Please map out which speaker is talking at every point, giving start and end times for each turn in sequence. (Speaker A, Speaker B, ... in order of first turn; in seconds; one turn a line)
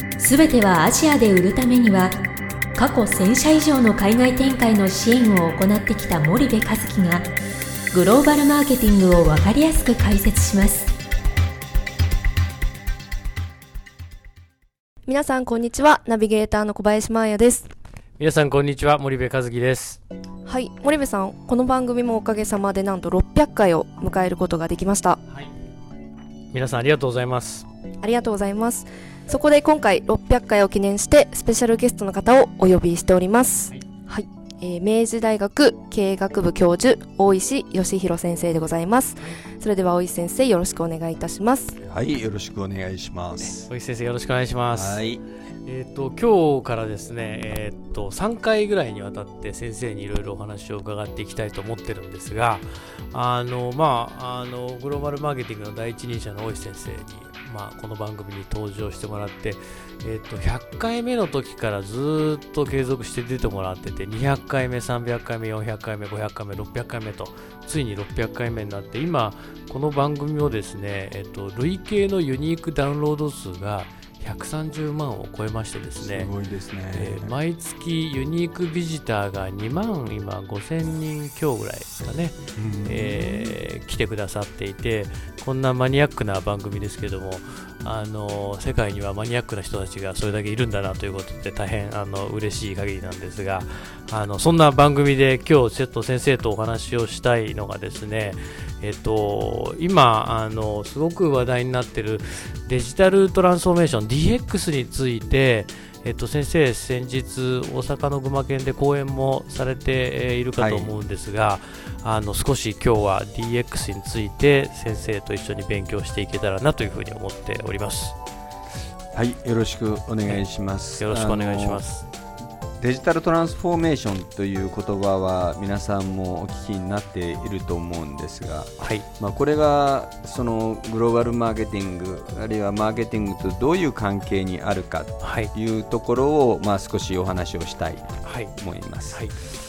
Speaker A: 0.2-2.2
Speaker A: 2.8-7.3
Speaker A: 7.9-10.9
Speaker B: 15.1-17.7
Speaker C: 18.2-20.0
Speaker B: 20.5-25.2
Speaker C: 26.5-27.6
Speaker B: 28.0-41.8
Speaker D: 41.8-43.7
Speaker C: 43.4-45.1
Speaker D: 44.7-45.2
Speaker C: 45.6-76.3
Speaker D: 76.0-77.3
Speaker C: 76.9-82.3
Speaker D: 82.6-83.5
Speaker C: 82.9-118.2
Speaker D: 110.6-110.9
Speaker D: 119.2-121.8
Speaker C: 121.0-122.0
Speaker D: 122.8-139.3
Speaker C: 128.8-129.1
Speaker C: 135.2-135.5
Speaker C: 138.2-138.5